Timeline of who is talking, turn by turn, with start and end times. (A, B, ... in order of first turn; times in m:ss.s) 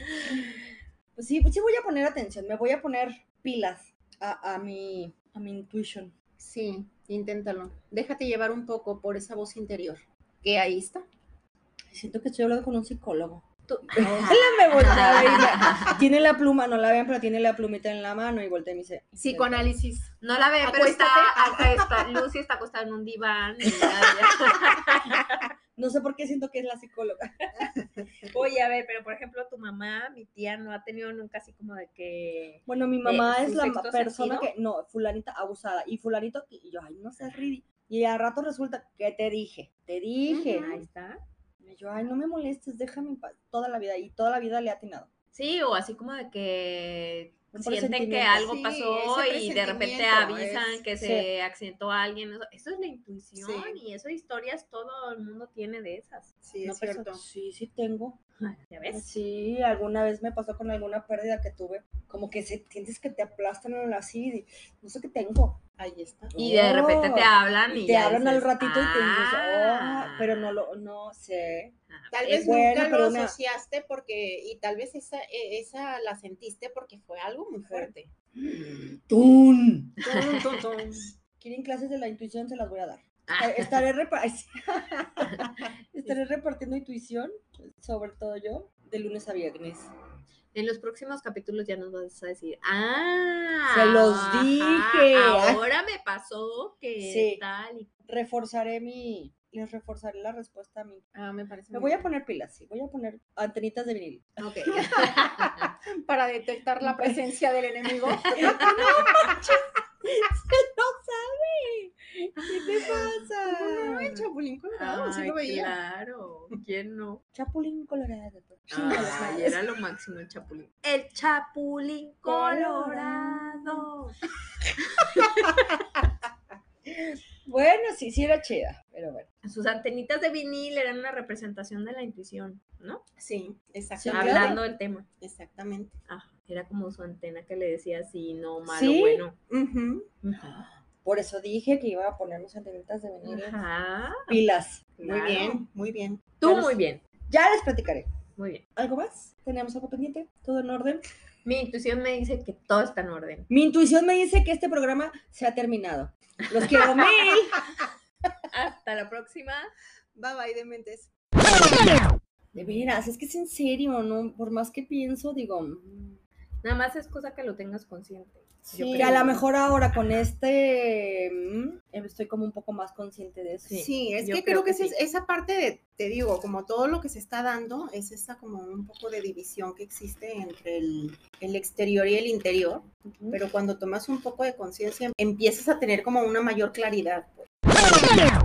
0:00.2-0:06.1 A
0:06.4-0:11.0 B
0:11.9-0:19.7 A
0:13.7-0:16.0 C
0:19.2-0:22.0 B
0:20.2-0:25.5 C
0:25.8-0:27.5 A
0:27.7-0:28.3 B
0:28.3-0:34.5 C
0:32.7-0:40.8 A
0:40.3-0:40.6 B
0:40.3-0:41.2 C
0:41.6-0:45.1 A
0:45.3-0:57.0 C
0:47.5-0:48.4 A
0:48.3-0:50.8 B
0:51.0-0:51.3 A
0:53.4-0:53.8 B
0:56.4-0:57.2 B
0:57.0-0:58.2 A
0:58.4-0:59.0 C
0:58.9-1:05.6 A
1:05.8-1:06.4 B
1:06.3-1:11.7 A
1:06.4-1:10.6 C
1:11.9-1:12.6 C
1:12.1-1:17.9 B
1:12.4-1:13.4 A
1:17.6-1:18.1 C
1:18.3-1:20.0 A
1:20.0-1:21.1 B
1:20.0-1:20.6 C
1:21.4-1:29.9 A
1:23.3-1:23.8 C
1:25.3-1:25.5 C
1:30.5-1:37.9 C
1:33.7-1:35.6 A
1:37.0-1:37.4 A
1:38.1-1:41.0 A
1:41.1-1:42.1 B
1:41.7-1:45.7 A
1:44.4-1:45.1 B
1:44.9-1:45.7 C
1:46.0-1:49.3 B
1:46.8-1:47.2 A
1:48.2-1:54.2 A
1:52.4-1:53.3 C
1:53.4-1:55.7 B
1:54.7-1:57.2 C
1:57.3-1:59.6 A
1:58.7-1:59.5 B
1:58.7-2:04.2 C
2:02.2-2:03.9 A
2:04.9-2:05.7 C
2:05.4-2:06.0 A
2:06.8-2:09.3 A
2:09.4-2:13.0 C
2:13.2-2:14.6 B
2:14.0-2:14.6 A
2:14.1-2:15.0 C
2:15.2-2:16.0 B
2:16.1-2:19.4 C
2:18.6-2:19.2 A
2:19.5-2:20.1 B
2:20.2-2:20.7 C
2:20.4-2:23.6 A
2:23.2-2:24.4 C
2:24.3-2:24.9 A
2:25.0-2:25.6 C
2:25.0-2:26.2 B
2:26.4-2:27.0 C
2:26.4-2:28.0 A
2:28.4-2:28.6 C
2:28.8-2:31.0 A
2:31.4-2:33.5 C
2:33.5-2:37.8 A
2:36.5-2:37.3 C
2:38.5-2:39.7 C
2:40.2-2:41.1 B
2:42.5-2:46.2 A
2:42.5-2:43.0 C
2:46.6-2:49.4 C
2:48.7-2:49.4 B
2:48.9-2:53.8 A
2:50.0-2:50.2 C
2:53.7-2:55.0 C
2:53.8-3:07.5 B
3:03.1-3:03.4 A